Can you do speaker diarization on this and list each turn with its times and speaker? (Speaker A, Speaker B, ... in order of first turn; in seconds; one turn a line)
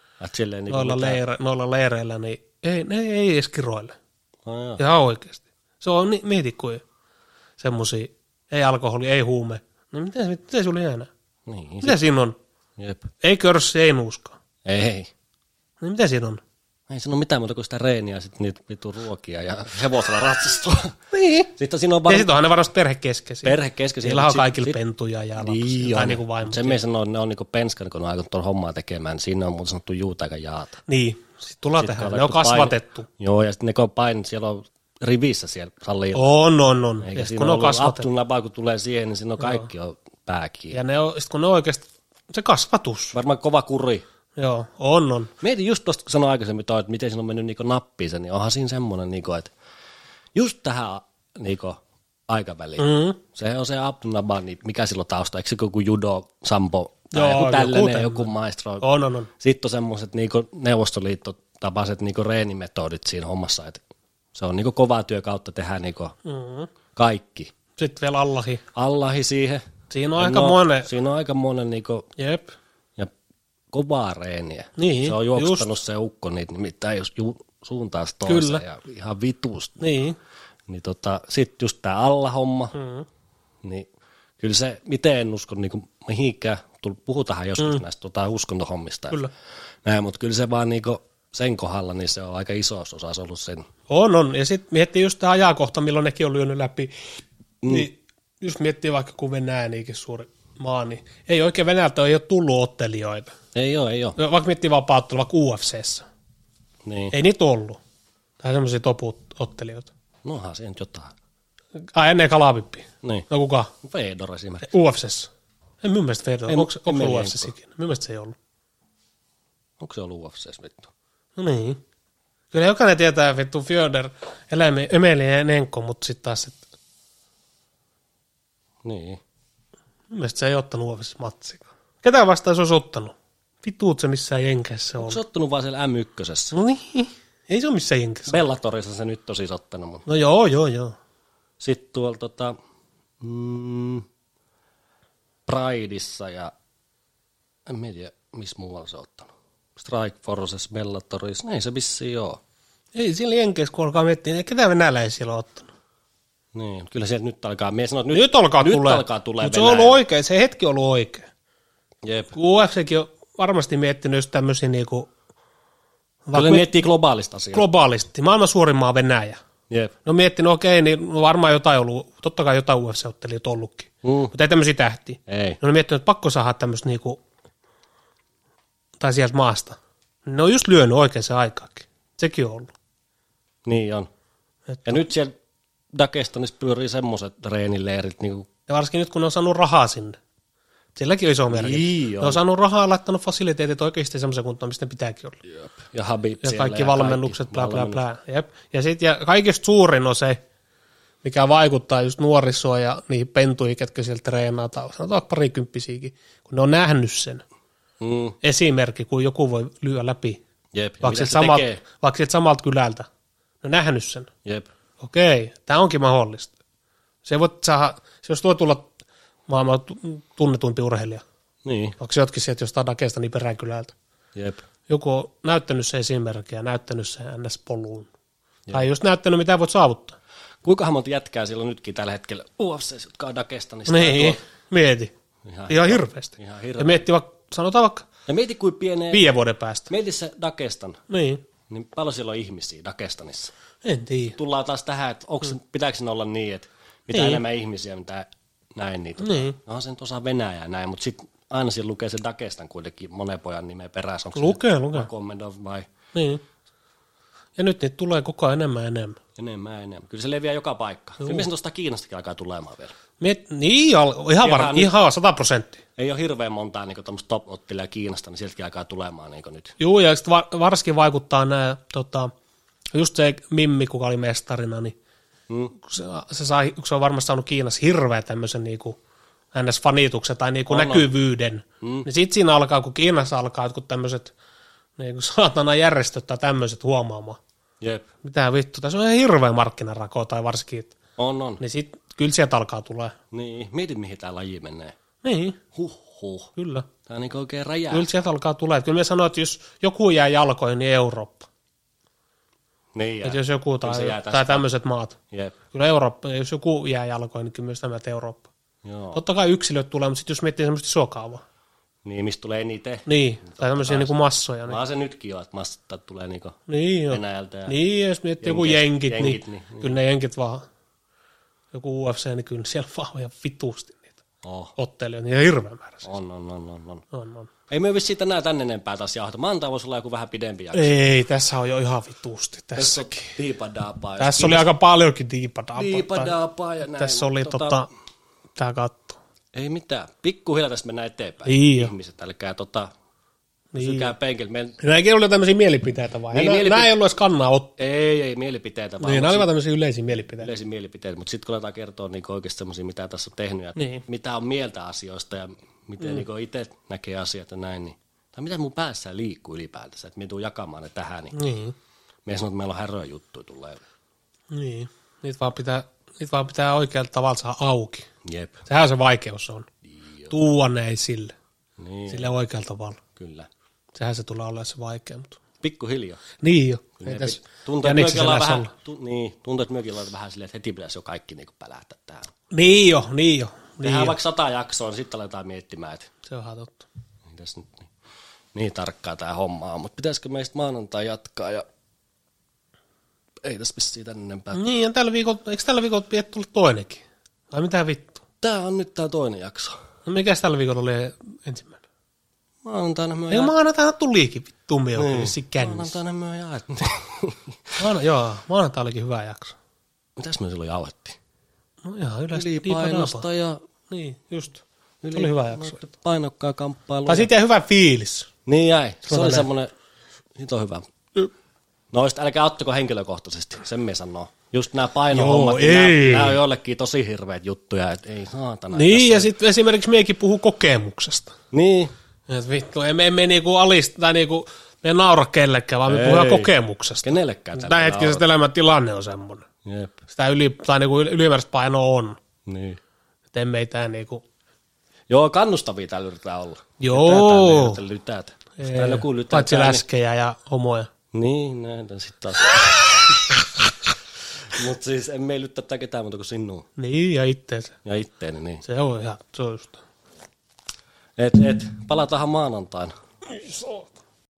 Speaker A: 0.2-1.2
Speaker B: 0.7-4.0
Speaker A: 4.5-4.8
Speaker B: 4.8-6.8
Speaker B: 7.6-11.1
Speaker A: 11.5-12.0
Speaker B: 11.8-12.4
Speaker A: 12.8-13.1
Speaker B: 13.2-14.4
Speaker A: 14.7-15.1
Speaker B: 15.8-16.4
Speaker A: 16.9-22.3
Speaker B: 22.1-26.8
Speaker A: 23.4-24.8
Speaker A: 25.4-30.8
Speaker B: 30.9-33.1
Speaker A: 31.8-36.3
Speaker B: 36.1-38.1
Speaker A: 37.0-40.8
Speaker B: 39.4-39.7
Speaker B: 40.7-43.2
Speaker A: 43.1-44.0
Speaker B: 44.4-45.3
Speaker A: 45.4-49.5
Speaker A: 50.4-58.9
Speaker B: 52.8-53.2
Speaker B: 57.1-59.3
Speaker A: 59.4-63.8
Speaker A: 64.3-66.2
Speaker B: 66.2-66.7
Speaker A: 66.9-67.5
Speaker B: 67.8-68.6
Speaker A: 68.8-69.7
Speaker B: 69.9-70.9
Speaker A: 70.2-72.1
Speaker B: 72.2-72.5
Speaker A: 73.7-79.8
Speaker B: 74.8-75.8
Speaker B: 78.3-78.6
Speaker B: 79.8-80.2
Speaker A: 80.7-82.8
Speaker B: 82.7-83.1
Speaker A: 83.6-83.9
Speaker A: 84.4-89.2
Speaker A: 89.8-93.7
Speaker B: 93.9-96.9
Speaker A: 97.6-97.9
Speaker B: 97.7-103.4
Speaker A: 103.5-104.2
Speaker B: 104.2-106.0
Speaker A: 106.8-107.1
Speaker B: 107.1-107.8
Speaker B: 108.4-109.9
Speaker A: 110.2-111.1
Speaker B: 111.8-113.7
Speaker A: 113.8-114.7
Speaker B: 114.6-115.3
Speaker B: 115.8-118.4
Speaker A: 116.5-117.5
Speaker A: 119.8-120.9
Speaker B: 121.4-121.8
Speaker B: 122.5-126.6
Speaker A: 128.8-129.2
Speaker B: 130.1-135.2
Speaker A: 135.0-136.6
Speaker B: 136.5-138.4
Speaker A: 138.3-140.1
Speaker B: 140.1-141.0
Speaker A: 141.6-142.6
Speaker A: 143.2-144.1
Speaker A: 145.5-146.5
Speaker A: 147.7-152.4
Speaker B: 152.9-155.7
Speaker A: 156.5-160.0
Speaker B: 158.1-161.3
Speaker A: 162.0-162.3
Speaker B: 162.3-165.1
Speaker B: 166.3-166.7
Speaker A: 166.3-167.7
Speaker B: 167.5-169.4
Speaker B: 170.1-177.2
Speaker A: 174.0-174.3
Speaker A: 175.3-175.6
Speaker B: 179.0-182.7
Speaker A: 183.7-184.1
Speaker B: 184.7-185.1
Speaker A: 184.8-185.3
Speaker A: 185.9-188.5
Speaker B: 188.7-190.2
Speaker B: 191.0-195.4
Speaker A: 191.5-192.4
Speaker A: 195.4-198.0
Speaker B: 196.4-200.4
Speaker B: 201.2-207.4
Speaker A: 208.0-208.4
Speaker B: 208.4-210.4
Speaker A: 210.7-211.8
Speaker B: 211.0-213.1
Speaker B: 213.6-214.3
Speaker B: 215.0-216.5
Speaker B: 217.2-218.9
Speaker B: 219.5-221.2
Speaker A: 221.6-222.0
Speaker B: 222.0-223.9
Speaker A: 224.3-224.6
Speaker B: 224.9-228.1
Speaker B: 228.7-230.2
Speaker A: 230.6-234.4
Speaker B: 233.9-235.1
Speaker A: 235.4-237.1
Speaker B: 235.7-238.1
Speaker A: 238.3-239.2
Speaker B: 239.1-239.9
Speaker A: 239.9-241.0
Speaker B: 241.1-241.4
Speaker A: 241.7-243.5
Speaker B: 243.8-244.4
Speaker A: 244.4-255.9
Speaker B: 247.1-247.4
Speaker B: 249.2-249.6
Speaker B: 254.3-255.1
Speaker B: 256.1-256.4
Speaker B: 257.6-259.2
Speaker A: 259.4-262.9
Speaker B: 261.2-261.5
Speaker B: 263.2-265.8
Speaker A: 264.4-264.9
Speaker A: 266.0-269.7
Speaker B: 269.8-272.3
Speaker B: 272.9-274.9
Speaker A: 275.5-275.7
Speaker B: 275.8-279.0
Speaker B: 279.5-284.3
Speaker A: 280.7-281.1
Speaker A: 281.8-282.1
Speaker B: 285.0-287.4
Speaker A: 287.8-288.1
Speaker B: 288.2-290.9
Speaker A: 291.2-291.6
Speaker B: 291.6-293.1
Speaker A: 293.3-294.9
Speaker B: 295.2-295.6
Speaker A: 295.7-296.5
Speaker B: 296.6-296.9
Speaker A: 297.1-298.1
Speaker B: 297.9-301.5
Speaker A: 302.9-304.7
Speaker B: 303.2-305.2
Speaker B: 305.7-308.5
Speaker A: 308.8-309.2
Speaker B: 309.1-311.4
Speaker A: 312.1-314.1
Speaker B: 313.1-314.8
Speaker A: 314.7-316.6
Speaker B: 316.7-320.7
Speaker A: 317.1-317.8
Speaker A: 318.4-320.0
Speaker B: 321.7-324.1
Speaker A: 324.4-324.7
Speaker B: 324.8-326.1
Speaker A: 326.0-327.0
Speaker B: 327.1-327.5
Speaker A: 327.7-330.9
Speaker B: 330.7-333.4
Speaker A: 332.8-334.7
Speaker B: 334.2-336.4
Speaker A: 335.8-337.8
Speaker B: 336.9-337.9
Speaker B: 338.6-339.2
Speaker A: 339.5-342.9
Speaker B: 341.4-341.9
Speaker B: 343.7-344.1
Speaker A: 343.8-344.8
Speaker B: 344.8-347.7
Speaker A: 346.3-346.9
Speaker A: 347.8-349.5
Speaker B: 349.0-350.5
Speaker A: 350.4-361.4
Speaker B: 353.8-354.0
Speaker B: 361.3-361.8
Speaker A: 362.2-363.8
Speaker B: 364.5-368.1
Speaker A: 368.2-368.6
Speaker B: 368.7-369.7
Speaker A: 369.9-370.3
Speaker B: 370.3-371.3
Speaker A: 371.8-372.3
Speaker B: 372.1-373.0
Speaker A: 373.2-373.5
Speaker B: 373.9-375.4
Speaker A: 375.6-376.2
Speaker B: 376.4-378.7
Speaker A: 377.0-382.3
Speaker B: 382.5-384.2
Speaker A: 383.8-386.1
Speaker B: 386.3-386.9
Speaker A: 387.3-387.9
Speaker A: 388.5-391.6
Speaker A: 393.4-394.6
Speaker B: 394.5-398.2
Speaker A: 398.4-399.8
Speaker B: 400.1-401.8
Speaker A: 402.6-403.5
Speaker B: 403.3-406.0
Speaker A: 405.0-407.8
Speaker B: 407.8-409.6
Speaker A: 410.2-411.2
Speaker B: 411.8-413.3
Speaker A: 412.3-413.6
Speaker B: 413.9-415.8
Speaker A: 415.0-417.3
Speaker B: 417.1-418.3
Speaker A: 418.5-419.7
Speaker B: 419.1-419.5
Speaker A: 420.4-420.9
Speaker A: 421.9-429.3
Speaker B: 425.1-426.4
Speaker B: 428.7-431.3
Speaker A: 431.5-431.9
Speaker B: 432.3-439.4
Speaker A: 435.9-438.2
Speaker A: 439.6-440.0
Speaker B: 440.1-442.2
Speaker A: 442.5-442.8
Speaker B: 443.3-444.2
Speaker A: 445.1-449.8
Speaker B: 446.8-447.8
Speaker B: 448.6-450.9
Speaker A: 451.1-453.4
Speaker A: 454.5-456.7
Speaker B: 456.8-457.8
Speaker A: 457.9-458.6
Speaker B: 458.6-459.8
Speaker A: 461.2-462.9
Speaker B: 463.3-463.9